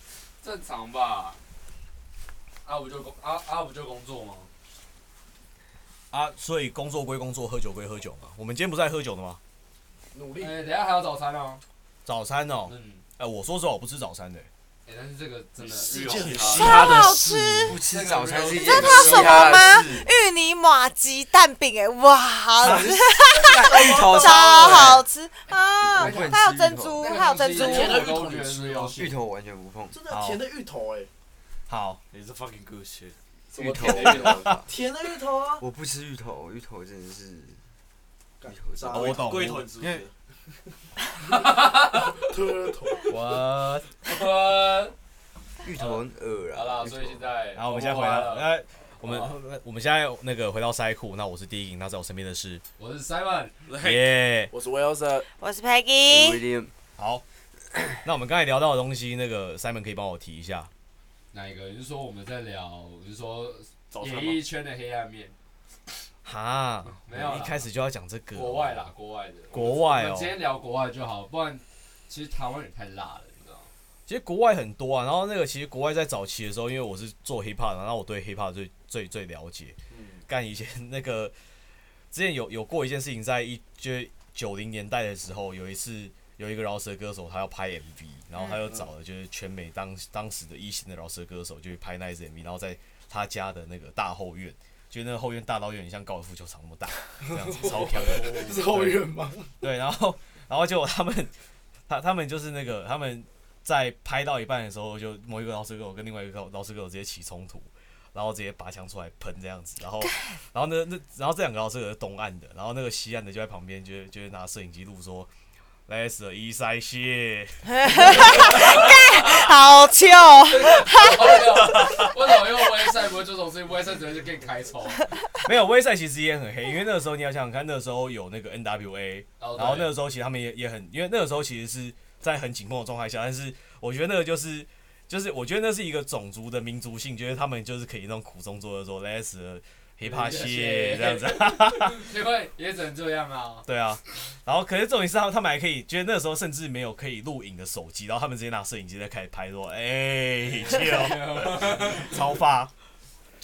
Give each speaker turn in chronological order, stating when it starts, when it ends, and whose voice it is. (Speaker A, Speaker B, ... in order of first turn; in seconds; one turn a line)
Speaker A: 0.4-1.4
Speaker A: 2.6-4.5
Speaker B: 6.1-9.4
Speaker C: 10.1-10.6
Speaker A: 10.4-11.6
Speaker B: 12.0-14.5
Speaker A: 12.7-13.0
Speaker A: 14.8-16.9
Speaker D: 15.6-17.7
Speaker C: 15.9-17.3
Speaker E: 16.6-17.8
Speaker F: 17.6-20.1
Speaker A: 17.9-19.9
Speaker E: 18.4-28.0
Speaker B: 22.6-22.9
Speaker F: 22.6-25.0
Speaker C: 23.7-24.2
Speaker A: 24.6-24.8
Speaker A: 25.5-26.4
Speaker F: 25.8-27.1
Speaker A: 27.0-29.1
Speaker D: 27.6-28.8
Speaker C: 27.6-28.9
Speaker F: 29.0-29.9
Speaker C: 29.9-31.1
Speaker B: 30.1-30.4
Speaker B: 31.7-32.0
Speaker D: 32.1-35.6
Speaker F: 33.6-34.7
Speaker C: 33.7-35.6
Speaker B: 34.2-34.6
Speaker F: 35.6-37.6
Speaker C: 38.4-39.3
Speaker F: 38.5-39.1
Speaker B: 38.9-40.0
Speaker D: 39.0-40.1
Speaker A: 41.3-42.2
Speaker C: 42.2-43.1
Speaker B: 43.1-43.9
Speaker A: 44.0-44.9
Speaker F: 45.6-47.2
Speaker A: 45.8-48.5
Speaker B: 47.5-52.6
Speaker A: 52.8-53.5
Speaker D: 53.7-54.1
Speaker B: 53.8-54.5
Speaker C: 54.5-55.3
Speaker E: 55.4-56.4
Speaker F: 56.1-56.7
Speaker B: 57.0-57.2
Speaker B: 58.0-60.7
Speaker A: 61.3-65.3
Speaker D: 63.9-64.4
Speaker B: 66.2-68.9
Speaker A: 66.9-67.7
Speaker A: 68.3-73.7
Speaker B: 69.5-70.4
Speaker B: 74.1-81.3
Speaker D: 79.9-80.2
Speaker B: 82.1-101.3
Speaker C: 97.2-99.5
Speaker B: 101.9-115.3
Speaker B: 115.9-119.2
Speaker E: 117.7-121.4
Speaker A: 118.9-119.5
Speaker A: 120.4-125.1
Speaker B: 121.6-122.1
Speaker B: 125.3-142.1
Speaker A: 129.4-129.9
Speaker A: 140.0-143.7
Speaker B: 143.7-152.7
Speaker A: 150.4-152.2